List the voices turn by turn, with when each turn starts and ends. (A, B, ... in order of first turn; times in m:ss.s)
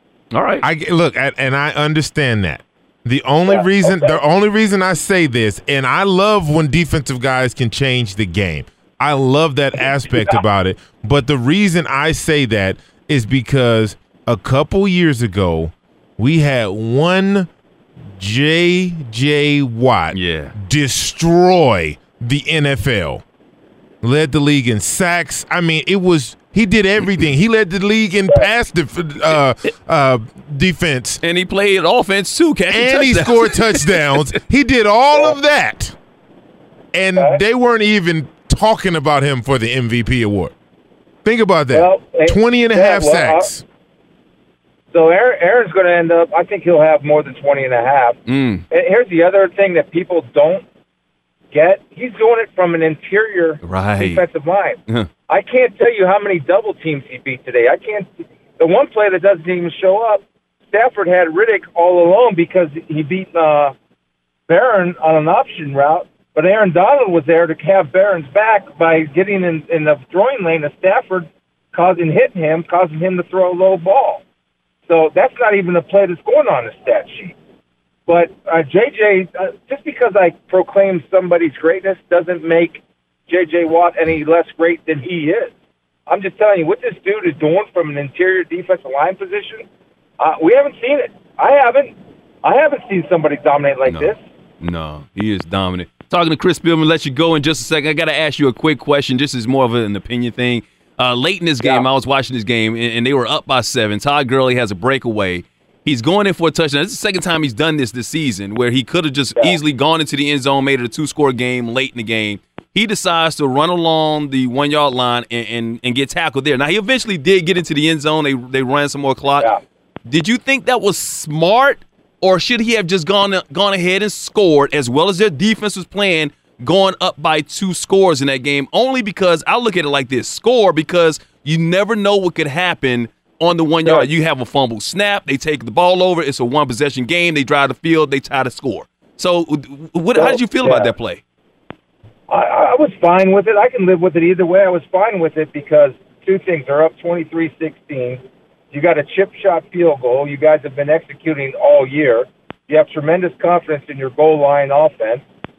0:00.3-0:00.6 A
0:00.6-0:17.5 B
0:03.4-0:04.2 C
0:09.8-0:10.4 C
0:18.2-0:23.2 B
0:20.1-0:20.5 A
0:24.0-0:31.2 B
0:31.2-0:34.2 A
0:32.7-0:36.0 B
0:36.9-0:40.5 B
0:37.2-0:37.4 C
0:41.2-0:43.6 B
0:41.7-0:43.6 C
0:44.9-0:48.2 C
0:48.3-0:48.6 A
0:48.7-0:50.6 C
0:51.5-1:03.7 C
0:53.6-0:54.2 A
1:04.5-1:14.2 C
1:14.9-1:17.4 C
1:18.1-1:25.5 C
1:26.1-1:29.7 C
1:30.2-1:34.2 C
1:33.9-1:59.5 A
1:41.6-1:41.9 C
2:00.1-2:21.2 A
2:13.8-2:14.1 C
2:20.1-2:20.9 C
2:22.3-2:35.2 C